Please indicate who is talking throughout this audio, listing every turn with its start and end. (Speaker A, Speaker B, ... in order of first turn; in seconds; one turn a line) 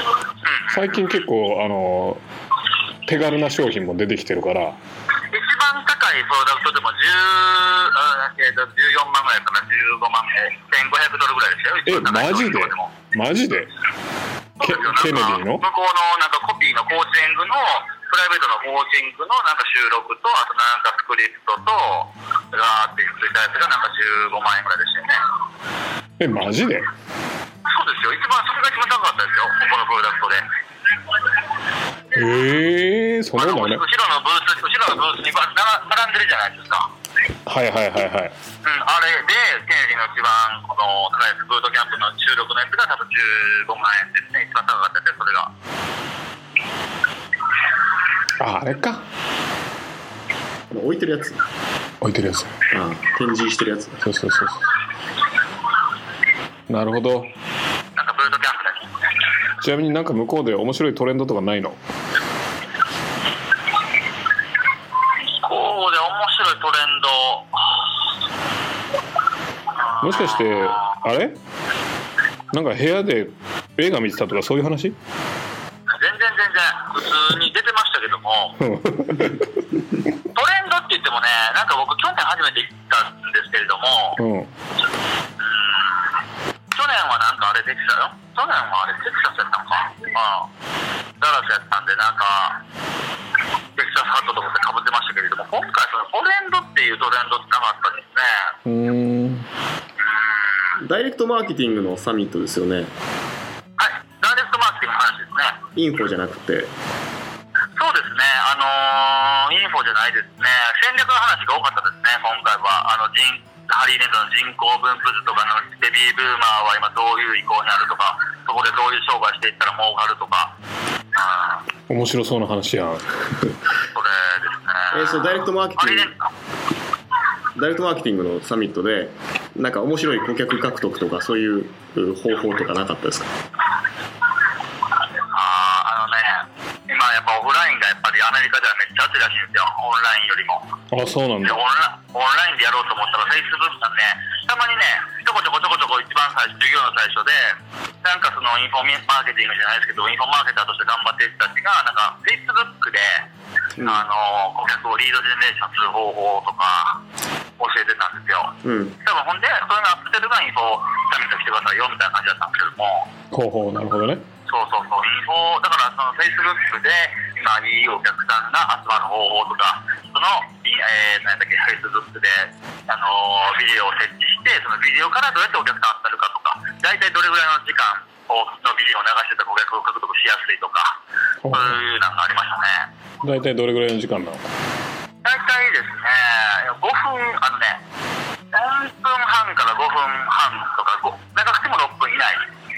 Speaker A: 0.4-0.9
Speaker B: 0.7-2.2
Speaker B: 3.1-4.8
Speaker A: 5.3-12.9
Speaker B: 11.9-13.7
Speaker A: 14.6-25.2
Speaker B: 14.6-15.7
Speaker B: 26.2-26.9
Speaker A: 27.6-30.5
Speaker B: 32.1-33.8
Speaker A: 33.4-36.9
Speaker B: 37.5-38.3
Speaker A: 38.6-45.5
Speaker B: 48.4-49.0
Speaker C: 50.7-51.4
Speaker B: 52.0-52.6
Speaker C: 52.7-54.0
Speaker B: 54.0-54.6
Speaker B: 56.7-57.3
Speaker A: 58.0-58.9
Speaker B: 59.6-61.8
Speaker A: 65.3-67.8
Speaker A: 69.8-71.0
Speaker B: 70.0-71.4
Speaker B: 72.5-75.0
Speaker A: 75.9-78.6
Speaker B: 78.6-79.7
Speaker A: 80.3-84.2
Speaker B: 84.2-84.5
Speaker A: 85.4-86.2
Speaker A: 86.7-90.5
Speaker A: 91.2-92.6
Speaker A: 93.8-98.6
Speaker B: 98.7-99.5
Speaker A: 100.0-100.8
Speaker C: 100.8-102.9
Speaker A: 103.8-105.6
Speaker C: 105.8-106.7
Speaker A: 107.8-120.5
Speaker A: 121.2-121.7
Speaker B: 121.9-123.1
Speaker A: 123.9-126.2
Speaker C: 124.9-126.1
Speaker C: 127.5-133.3
Speaker A: 135.3-140.7
Speaker B: 140.9-141.6
Speaker A: 141.4-153.3
Speaker C: 153.8-154.0
Speaker A: 153.8-157.0
Speaker A: 157.6-163.1
Speaker C: 158.6-158.9
Speaker B: 163.3-164.2
Speaker A: 164.5-181.0
Speaker B: 181.4-181.8
Speaker A: 181.5-182.9
Speaker B: 183.2-184.5
Speaker A: 185.2-187.8
Speaker A: 188.5-192.5